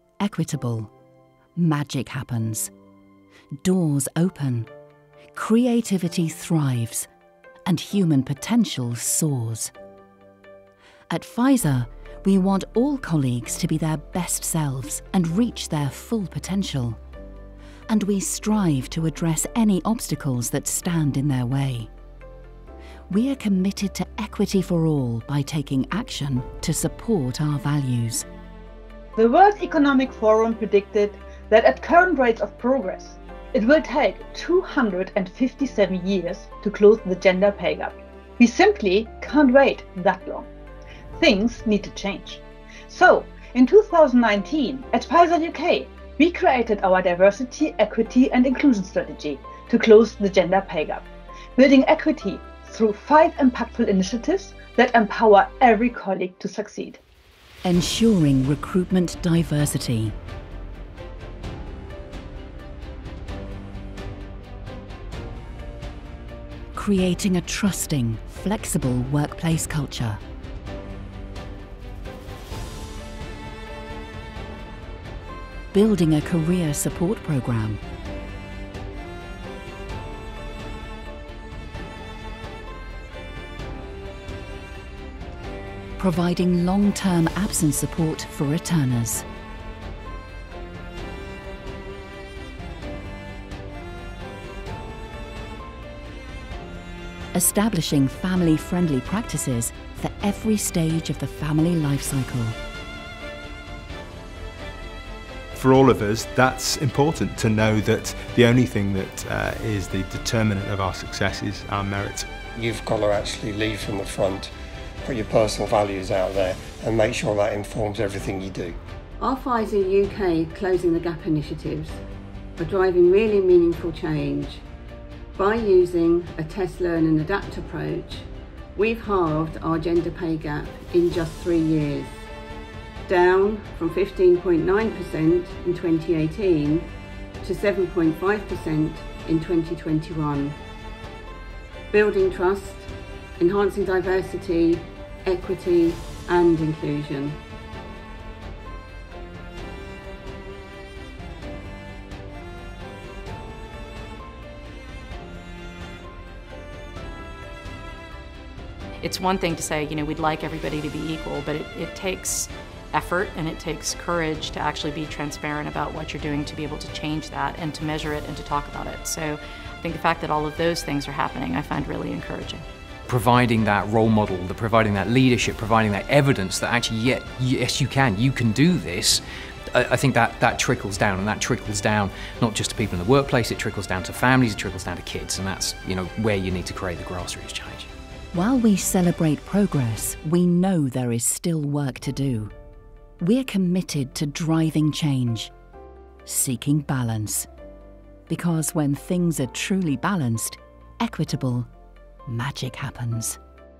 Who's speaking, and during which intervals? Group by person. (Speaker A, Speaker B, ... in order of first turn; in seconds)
Speaker A: 0.2-0.9, 1.6-2.7, 3.6-4.7, 5.3-7.1, 7.7-9.7, 11.1-17.0, 17.9-21.9, 23.1-28.2, 57.6-60.1, 66.7-70.2, 75.7-77.8, 86.0-89.2, 97.3-102.6, 188.3-192.5, 193.2-195.5, 196.2-197.5, 198.3-201.7, 202.3-203.4
Speaker B: 29.2-40.5, 41.2-57.0
Speaker C: 105.5-112.3
Speaker D: 112.5-114.5, 115.0-118.8
Speaker E: 119.2-122.0, 122.6-124.6, 125.3-132.2, 133.1-136.9, 137.4-140.6, 141.9-147.4
Speaker F: 159.0-172.6
Speaker G: 173.1-187.9